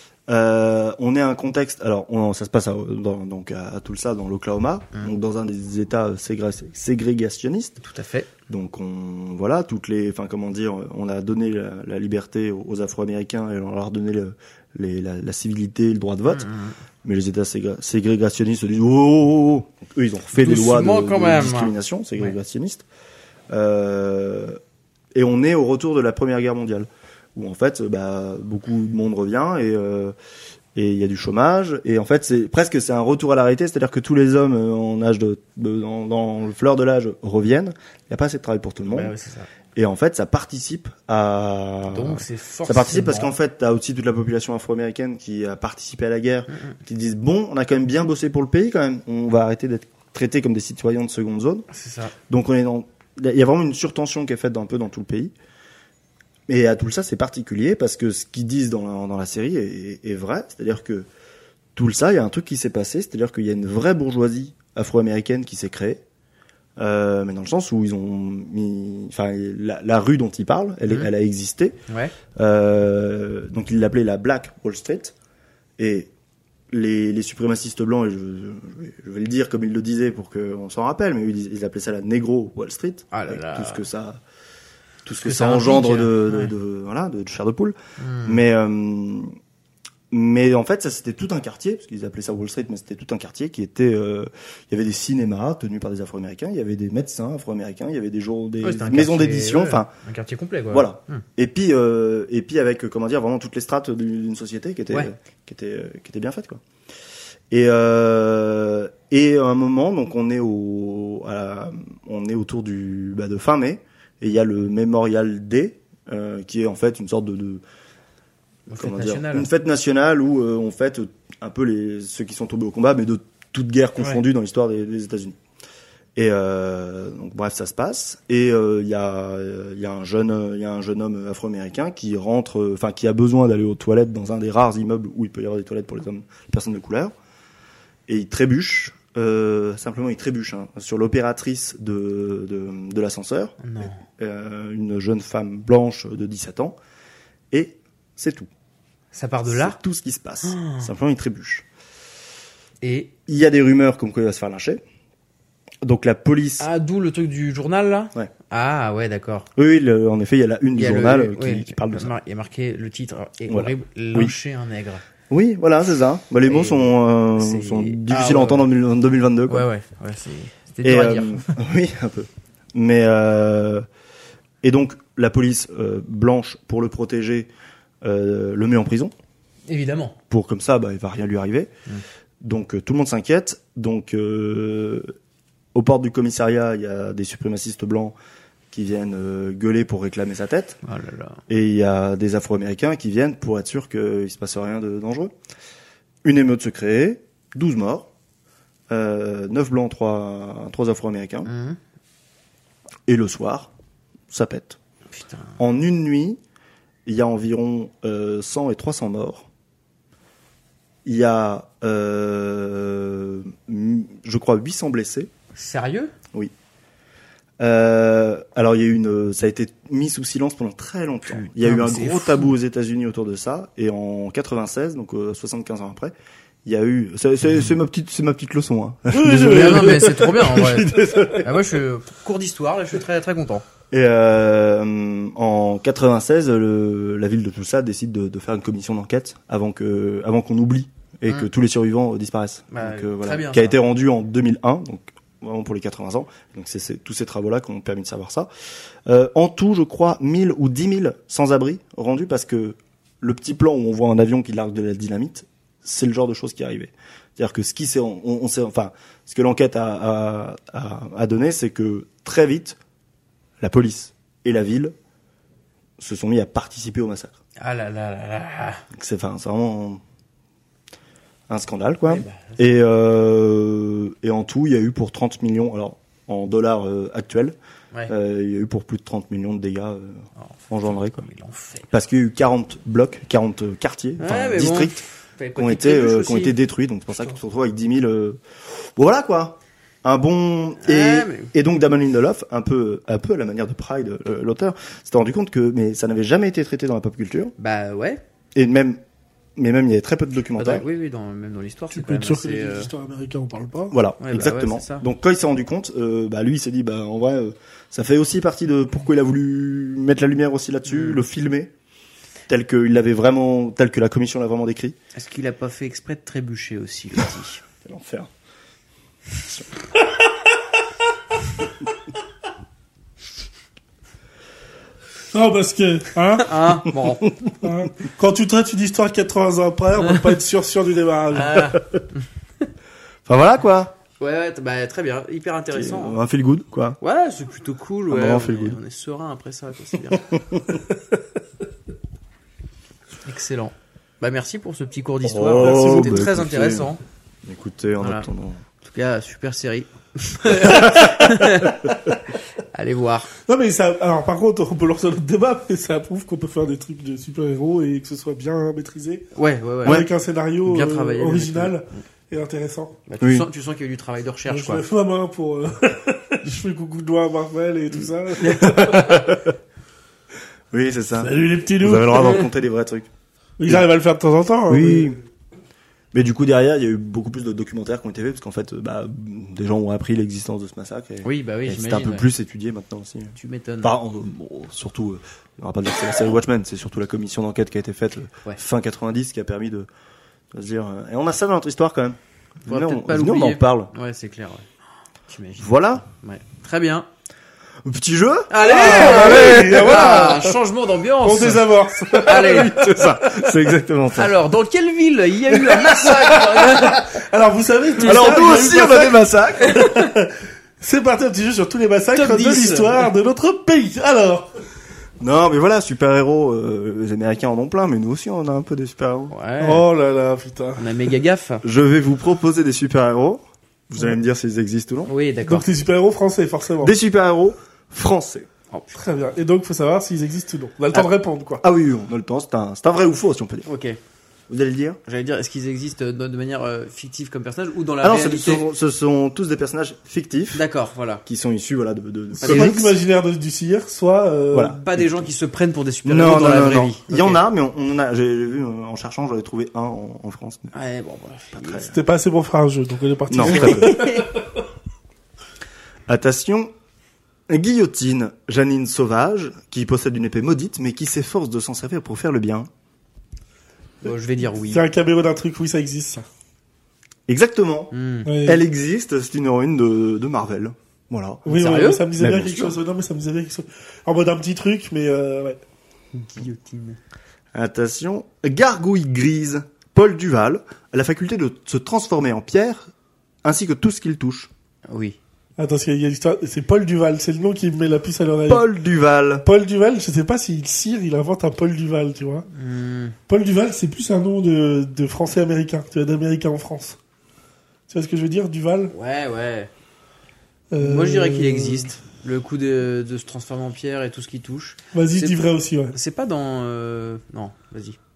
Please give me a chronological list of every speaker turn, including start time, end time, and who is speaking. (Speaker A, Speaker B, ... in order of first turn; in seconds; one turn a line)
Speaker A: 0.3-7.8
Speaker B: 7.8-8.3
Speaker A: 8.5-16.5
Speaker B: 16.3-16.8
Speaker A: 17.0-22.9
Speaker B: 20.4-22.4
Speaker A: 23.5-24.6
Speaker A: 25.1-30.1
Speaker A: 30.8-39.1
Speaker B: 38.9-39.5
Speaker A: 39.8-51.7
Speaker B: 41.9-43.3
Speaker B: 46.5-46.8
Speaker B: 51.7-52.1
Speaker A: 52.3-55.3
Speaker A: 56.5-61.1
Speaker A: 61.8-66.0
Speaker A: 66.8-71.8
Speaker B: 71.9-72.1
Speaker A: 72.3-75.1
Speaker A: 75.8-76.1
Speaker A: 76.7-84.2
Speaker B: 83.1-83.8
Speaker A: 85.0-89.3
Speaker B: 85.2-86.5
Speaker B: 88.0-88.4
Speaker A: 90.1-99.9
Speaker B: 98.6-101.2
Speaker A: 100.7-106.6
Speaker A: 107.5-117.6
Speaker B: 118.7-119.5
Speaker A: 118.8-125.4
Speaker A: 126.2-137.1
Speaker A: 138.1-146.8
Speaker B: 143.6-144.0
Speaker A: 147.5-148.5
Speaker B: 149.1-149.8
Speaker A: 149.5-151.7
Speaker B: 150.4-150.9
Speaker B: 152.8-153.1
Speaker A: 153.3-154.8
Speaker A: 155.8-156.7
Speaker B: 156.6-159.5
Speaker A: 159.6-162.1
Speaker B: 160.8-165.0
Speaker A: 163.5-164.3
Speaker A: 165.3-169.7
Speaker B: 166.4-168.7
Speaker B: 169.5-171.5
Speaker A: 170.8-173.8
Speaker A: 174.6-177.5
Speaker A: 178.0-179.1
Speaker B: 179.7-180.2
Speaker A: 180.3-181.7
Speaker A: 182.4-185.1
Speaker A: 185.7-188.2
Speaker A: 188.7-190.8
Speaker B: 190.8-191.4
Speaker A: 191.5-195.3
Speaker A: 196.2-198.1
Speaker A: 198.9-201.5
Speaker B: 201.4-201.8
Speaker A: 203.1-203.7
Speaker A: 204.3-204.8
Speaker B: 205.1-205.6
Speaker A: 205.6-206.4
Speaker A: 207.1-209.5
Speaker A: 211.1-215.3
Speaker B: 215.6-216.1
Speaker A: 217.6-226.1
Speaker B: 221.3-222.5
Speaker A: 226.7-231.5
Speaker C: 229.1-230.7
Speaker B: 229.4-233.6
Speaker A: 233.9-248.5
Speaker B: 242.7-243.8
Speaker A: 249.1-262.8
Speaker A: 263.6-264.9
Speaker A: 266.0-267.4
Speaker B: 267.6-268.9
Speaker A: 268.9-270.0
Speaker A: 271.5-277.6
Speaker B: 272.1-272.8
Speaker A: 278.1-281.2
Speaker B: 280.4-281.9
Speaker A: 281.9-285.0
Speaker B: 284.2-286.6
Speaker A: 285.6-288.4
Speaker A: 289.0-297.5
Speaker B: 290.8-291.5
Speaker B: 297.6-298.2
Speaker A: 298.6-299.0
Speaker A: 299.6-300.9
Speaker B: 300.6-302.9
Speaker C: 301.9-303.9
Speaker A: 303.9-311.7
Speaker B: 304.2-305.1
Speaker B: 310.9-311.2
Speaker A: 312.5-315.0
Speaker B: 315.1-317.6
Speaker A: 317.9-318.3
Speaker C: 325.3-326.6
Speaker B: 326.4-327.3
Speaker C: 327.6-331.8
Speaker B: 330.0-330.3
Speaker B: 331.3-332.2
Speaker A: 333.3-333.9
Speaker B: 334.2-336.2
Speaker A: 335.7-337.0
Speaker B: 337.0-340.2
Speaker A: 338.1-338.8
Speaker A: 340.1-340.8
Speaker B: 343.2-347.0
Speaker A: 345.2-346.9
Speaker C: 345.6-346.2
Speaker A: 347.4-348.6
Speaker B: 348.0-348.3
Speaker B: 348.8-351.9
Speaker B: 352.6-353.3
Speaker C: 353.5-359.3
Speaker B: 359.4-360.1
Speaker C: 359.9-363.0
Speaker B: 360.6-361.8
Speaker B: 363.1-364.8
Speaker A: 363.2-363.5
Speaker C: 364.5-369.2
Speaker B: 368.4-369.0
Speaker A: 368.6-369.4
Speaker A: 370.7-373.1
Speaker C: 371.2-372.5
Speaker C: 373.6-375.1
Speaker A: 374.7-375.2
Speaker A: 376.1-389.9
Speaker B: 381.2-382.3
Speaker B: 383.4-384.0
Speaker A: 390.5-393.9
Speaker B: 392.7-394.7
Speaker B: 395.3-397.1
Speaker A: 395.6-396.0
Speaker A: 397.8-400.2
Speaker B: 398.5-402.8
Speaker C: 398.6-400.6
Speaker C: 401.2-403.1
Speaker A: 402.2-404.3
Speaker B: 404.1-407.2
Speaker C: 405.7-414.5
Speaker A: 408.0-409.8
Speaker B: 409.6-410.1
Speaker B: 412.1-413.1
Speaker A: 415.2-419.3
Speaker B: 419.3-419.8
Speaker C: 419.6-420.8
Speaker B: 420.8-421.6
Speaker A: 421.6-425.1
Speaker B: 425.1-425.7
Speaker C: 425.5-426.9
Speaker A: 426.8-428.5
Speaker C: 428.9-431.6
Speaker A: 431.6-433.7
Speaker B: 433.7-434.0
Speaker A: 434.5-435.0
Speaker B: 435.1-438.7
Speaker A: 438.0-440.6
Speaker B: 440.5-441.2
Speaker A: 441.3-442.9
Speaker B: 442.4-442.8
Speaker C: 442.4-444.8
Speaker A: 444.5-445.3
Speaker B: 444.7-447.4
Speaker A: 446.1-450.7
Speaker B: 450.7-451.9
Speaker A: 451.6-451.9
Speaker C: 451.8-454.4
Speaker A: 453.3-454.0
Speaker B: 453.4-454.3
Speaker A: 456.1-456.7
Speaker A: 457.5-462.7
Speaker B: 464.0-464.9
Speaker C: 464.6-466.3
Speaker A: 467.3-467.9
Speaker B: 467.9-468.3
Speaker C: 468.3-468.6
Speaker A: 468.4-471.4
Speaker C: 471.4-475.6
Speaker B: 471.5-472.1
Speaker A: 472.2-472.8
Speaker B: 476.1-477.0
Speaker A: 477.5-482.9
Speaker A: 483.4-484.5
Speaker B: 484.9-485.2
Speaker C: 485.6-488.7
Speaker A: 488.5-489.4
Speaker C: 489.4-492.5
Speaker B: 492.5-493.2
Speaker C: 493.3-497.0
Speaker C: 497.9-498.9
Speaker B: 498.9-499.7
Speaker C: 500.7-501.9
Speaker B: 500.8-505.4
Speaker C: 504.9-506.0
Speaker B: 505.9-508.0